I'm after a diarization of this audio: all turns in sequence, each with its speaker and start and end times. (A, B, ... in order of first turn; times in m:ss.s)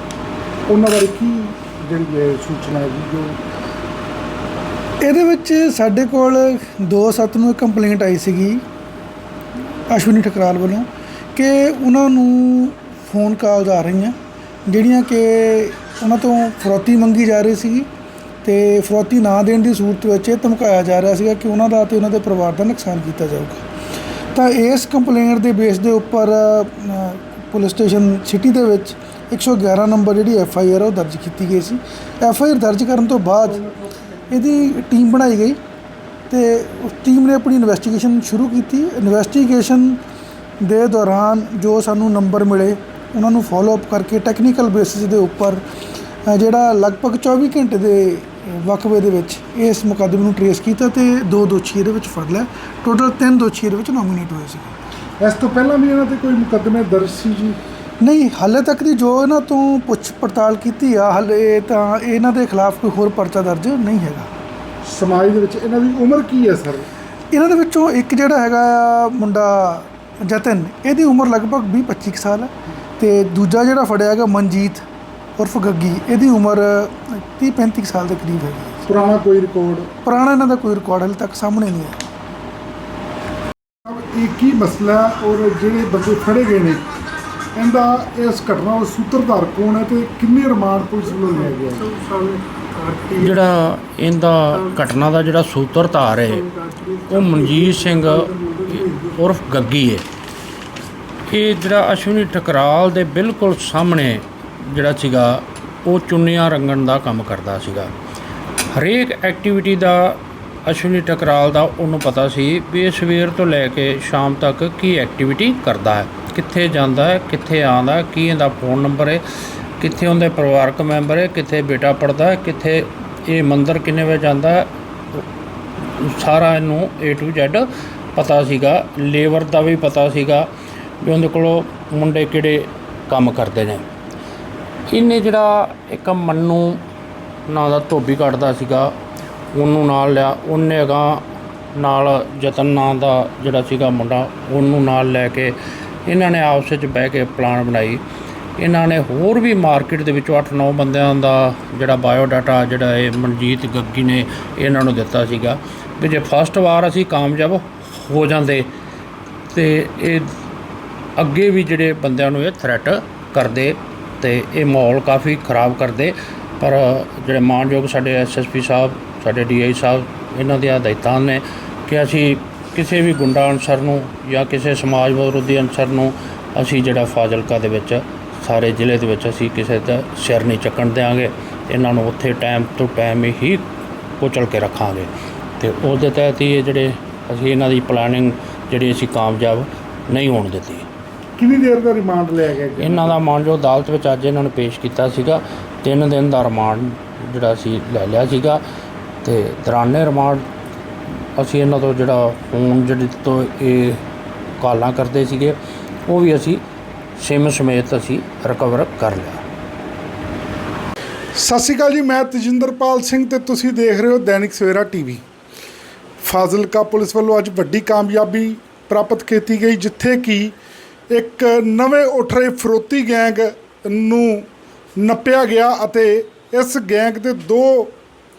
0:00.7-0:03.4 A
0:05.0-0:08.6 B
0:09.9-0:14.2 B
0:14.7-0:17.9 B
0:18.4-0:23.6 B
0:24.3-0:33.6 B
0:34.3-0:35.6 B
0:36.3-0:40.0 B
0:40.6-0:45.6 B
0:46.3-0:54.8 B
0:55.2-0:57.6 A
0:58.0-1:04.3 B
1:04.9-1:06.9 A
1:07.3-1:14.8 B
1:15.4-1:18.9 B
1:18.9-1:20.0 A
1:20.0-1:22.0 B
1:23.9-1:26.8 A
1:27.6-1:31.9 A
1:32.0-1:33.1 B
1:33.2-1:36.5 C
1:36.5-1:38.0 B
1:37.1-1:40.1 C
1:41.3-1:47.9 C
1:48.7-1:59.2 C
1:59.8-2:05.2 C
2:05.8-2:10.5 C
2:11.0-2:13.9 C
2:14.9-2:16.8 C
2:17.5-2:18.9 C
2:19.5-2:28.0 C
2:28.6-2:38.7 C
2:39.5-2:40.3 C
2:41.2-3:03.6 C
3:04.2-3:10.9 C
3:11.4-3:13.2 A
3:12.8-3:18.6 C
3:19.2-3:20.4 C
3:21.4-3:24.0 C
3:24.6-3:26.6 C
3:27.2-3:29.4 C
3:31.4-3:35.2 A
3:36.2-3:40.5 A
3:41.1-3:44.5 A
3:45.0-3:48.0 A